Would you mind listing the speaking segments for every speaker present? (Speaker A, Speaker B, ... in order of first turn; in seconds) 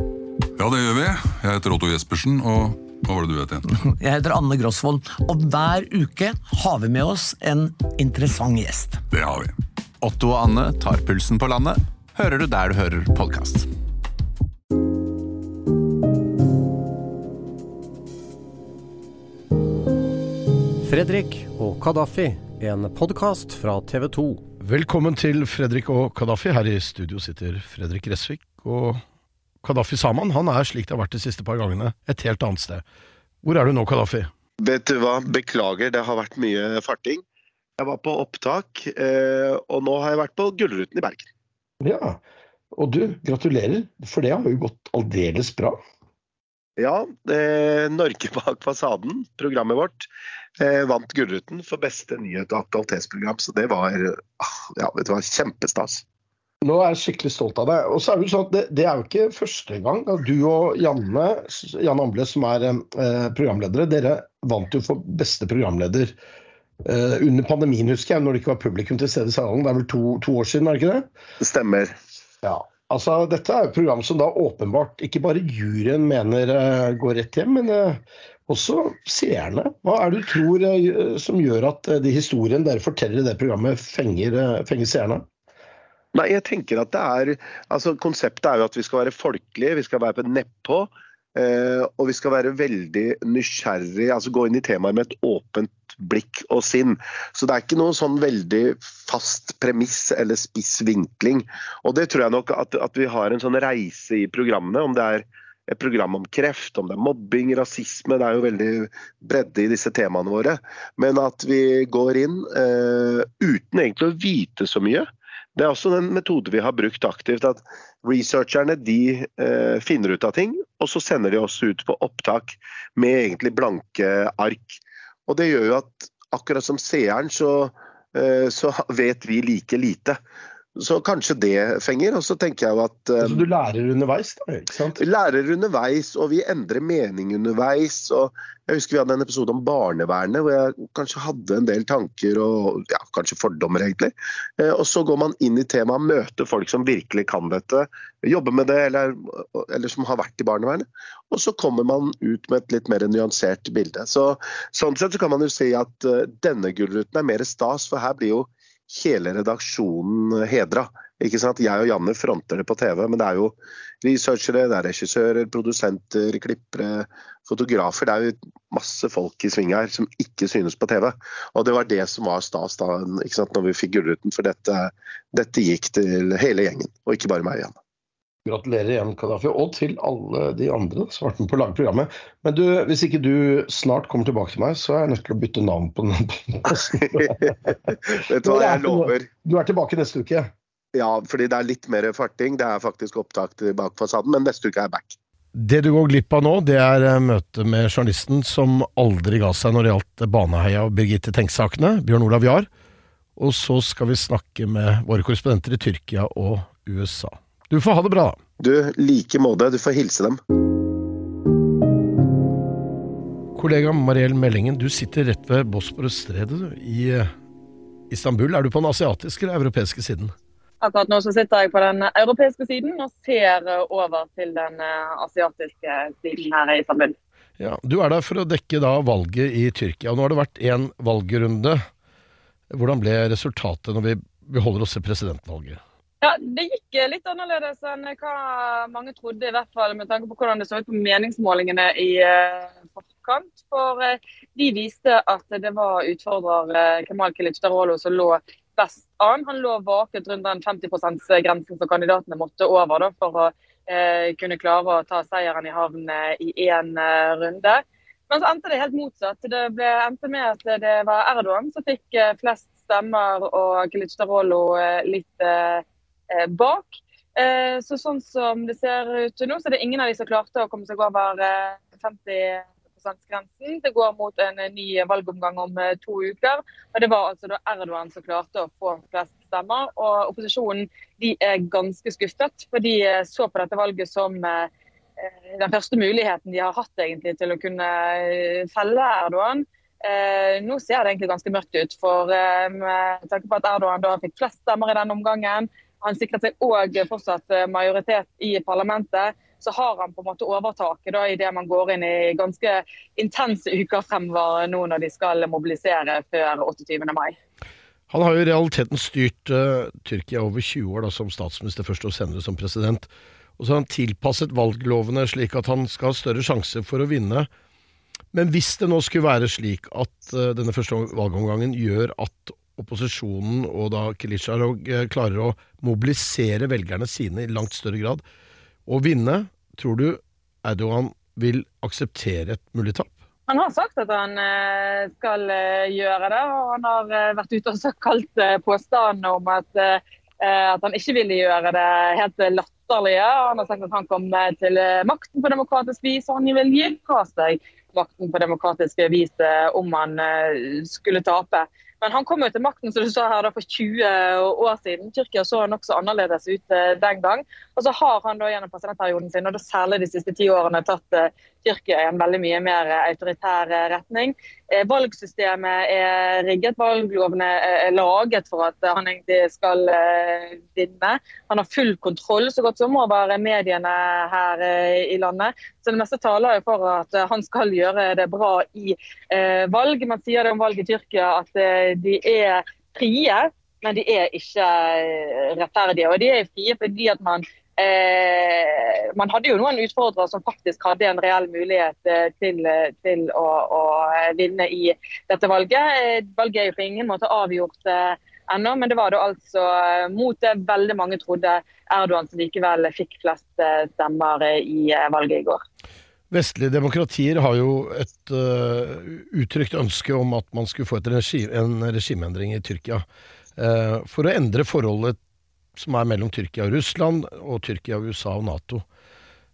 Speaker A: 0.6-3.7, 9.1-9.6
Speaker B: 3.8-9.0
Speaker C: 10.0-13.7
Speaker D: 20.9-24.4
Speaker E: 24.6-29.0, 29.6-32.9, 33.4-34.3, 41.8-42.2, 42.7-45.8, 56.6-66.1, 66.8-71.1, 72.4-85.3, 133.2-135.0, 178.4-190.5, 195.5-202.7, 203.4-208.4, 213.6-217.3, 218.1-220.3, 227.6-231.8, 232.7-235.8, 308.1-317.5, 318.3-328.2, 328.9-333.1, 406.3-413.1, 413.6-415.2, 415.8-418.9
Speaker F: 34.6-37.2, 37.8-41.3, 46.8-56.0, 71.4-72.0, 86.1-130.2, 130.8-133.4, 135.0-177.8, 188.1-189.3, 190.9-195.2, 208.6-210.4
Speaker G: 220.8-227.2, 236.2-284.7, 285.2-307.4, 333.5-405.6